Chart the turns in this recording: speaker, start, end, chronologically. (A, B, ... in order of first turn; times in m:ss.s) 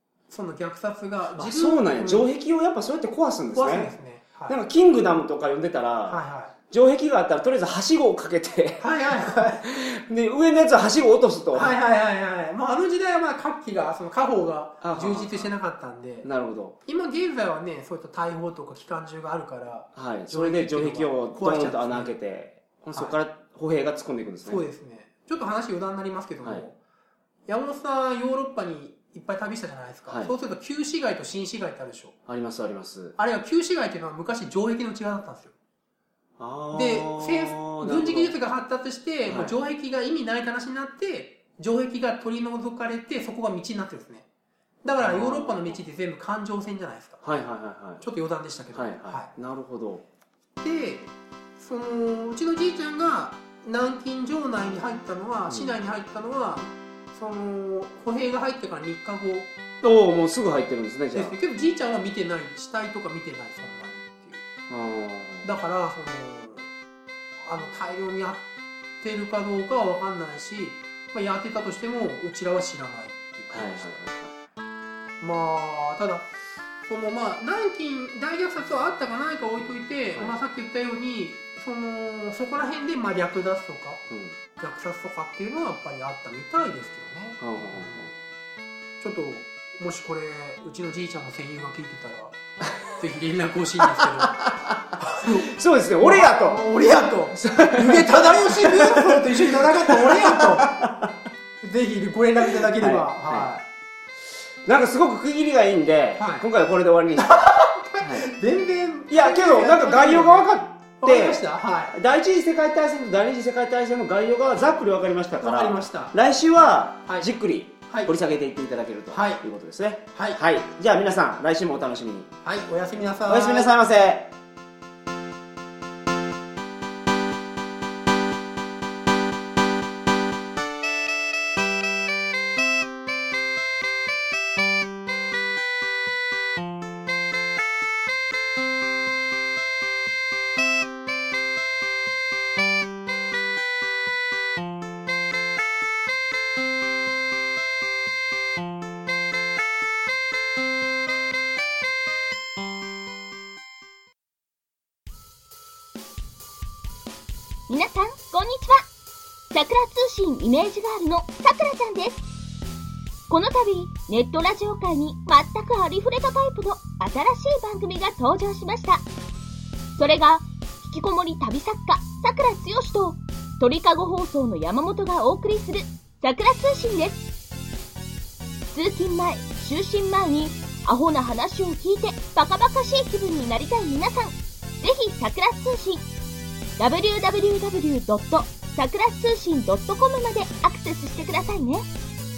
0:00.3-0:02.3 A
0:01.3-0:03.9 B
0:03.5-0:04.6 A
0:04.5-0:11.8 B
0:06.1-0:06.5 A
0:08.8-0:09.6 A
0:11.5-0:16.3 A
0:14.8-0:15.5 B
0:16.2-0:16.8 B
0:16.8-0:22.1 A
0:20.0-0:24.6 B
0:24.4-0:26.8 A
0:27.5-0:32.2 A
0:30.1-0:30.3 B
0:32.3-0:33.2 B
0:33.2-0:35.5 A
0:36.4-0:38.4 B
0:36.7-0:44.3 A
0:39.3-0:39.6 B
0:44.8-0:47.2 A
0:45.0-0:45.7 B
0:47.2-0:48.0 B
0:48.0-0:49.3 A
0:48.7-0:50.0 B
0:50.6-0:59.5 A
0:55.5-0:55.8 B
0:59.8-1:01.4 B
1:01.1-1:04.4 A
1:04.7-1:05.5 B
1:05.4-1:06.7 A
1:07.4-1:08.4 A
1:09.0-1:14.0 A
1:13.5-1:14.3 B
1:15.2-1:24.0 A
1:24.1-1:24.4 B
1:24.6-1:28.2 A
1:27.4-1:28.1 B
1:29.0-1:40.8 A
1:32.7-1:32.9 B
1:33.9-1:36.7 B
1:37.3-1:41.1 B
1:41.6-1:43.6 A
1:42.5-1:43.5 B
1:44.6-1:47.4 B
1:46.2-1:46.5 A
1:47.2-1:50.5 A
1:48.0-1:48.3 B
1:49.1-2:02.3 B
1:51.0-1:52.0 A
1:55.4-1:56.2 A
1:57.9-1:58.1 A
1:59.1-1:59.4 A
2:00.1-2:00.4 A
2:02.4-2:03.7 A
2:03.3-2:04.3 B
2:37.7-2:38.9 C
2:39.5-2:42.2 C
2:43.3-2:49.0 C
2:50.0-2:57.3 C
2:58.7-3:06.0 C
3:06.8-3:11.9 C